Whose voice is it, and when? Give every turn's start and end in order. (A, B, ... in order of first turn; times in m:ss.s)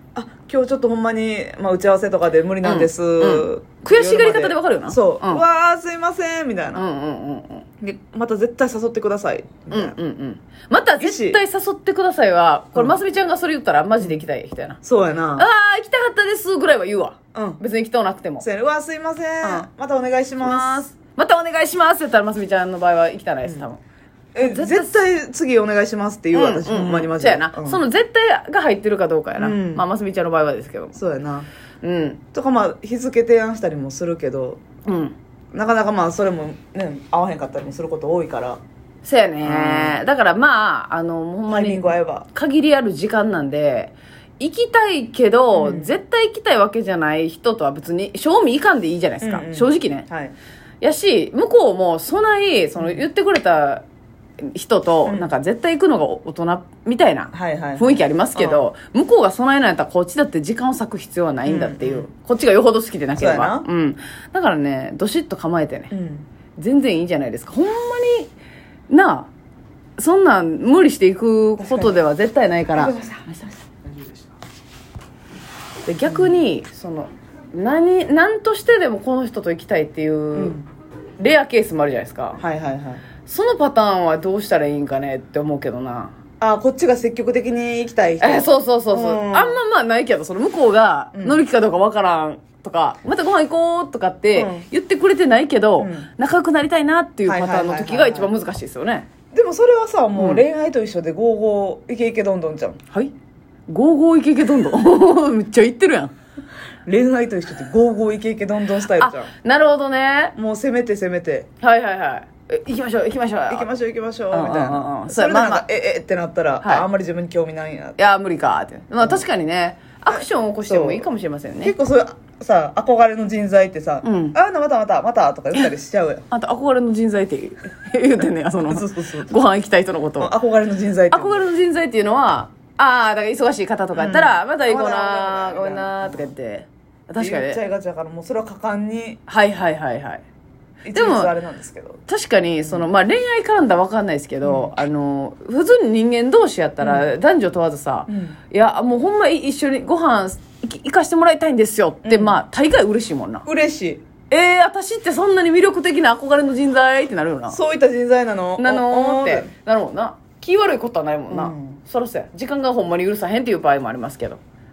0:00.1-0:06.8 A
0:02.6-0:05.4 B
0:06.7-0:07.6 B
0:07.8-0:10.0 A
0:09.7-0:14.8 B
0:11.0-0:11.4 A
0:14.8-0:15.5 A
0:15.4-0:18.4 B
0:17.3-0:17.6 A
0:18.4-0:20.9 A
0:20.4-0:23.8 B
0:24.3-0:27.8 A
0:24.4-0:24.9 B
0:26.3-0:31.0 B
0:29.4-0:29.8 A
0:30.9-0:31.5 A
0:31.8-0:32.2 B
0:32.3-0:34.6 A
0:34.8-0:35.1 B
0:35.5-0:38.6 A
0:39.0-0:50.0 B
0:39.4-0:40.0 A
0:41.5-0:42.3 A
0:45.5-0:45.9 A
0:49.2-0:50.3 A
0:50.8-0:53.8 B
0:52.8-0:53.0 A
0:54.4-1:05.9 B
0:57.3-0:58.6 A
1:01.4-1:02.1 A
1:03.2-1:03.7 A
1:05.9-1:06.3 A
1:06.6-1:08.3 B
1:08.9-1:09.3 B
1:10.0-1:13.5 B
1:11.6-1:12.0 A
1:12.7-1:13.3 A
1:15.8-1:20.6 B
1:16.0-1:16.3 A
1:20.3-1:20.7 A
1:21.2-1:22.4 B
1:22.4-1:23.0 A
1:23.2-1:26.1 B
1:26.4-1:29.6 A
1:28.2-1:39.1 B
1:31.1-1:31.4 A
1:34.3-1:34.6 A
1:35.8-1:36.1 A
1:37.2-1:38.3 A
1:39.3-1:42.8 A
1:40.2-1:40.4 B
1:43.7-1:46.1 B
1:46.8-1:49.3 A
1:48.9-1:50.3 B
1:50.4-1:51.5 A
1:51.6-1:53.7 B
1:53.5-1:58.0 A
1:54.3-1:55.6 B
1:58.0-2:01.7 B
2:00.1-2:01.1 A
2:01.6-2:06.2 A
2:04.0-2:04.4 B
2:06.3-2:10.3 B
2:08.6-2:09.3 A
2:10.2-2:11.5 A
2:11.1-2:17.6 B
2:13.9-2:16.3 A
2:17.2-2:19.2 A
2:19.3-2:20.2 B
2:20.8-2:22.0 A
2:20.9-2:21.3 B
2:22.1-2:33.5 B
2:24.4-2:24.7 A
2:26.8-2:27.1 A
2:28.1-2:28.4 A
2:32.0-2:32.4 A
2:33.4-2:34.0 A
2:34.3-2:37.6 B
2:37.5-2:39.5 A
2:38.6-2:44.4 B
2:41.3-2:41.8 A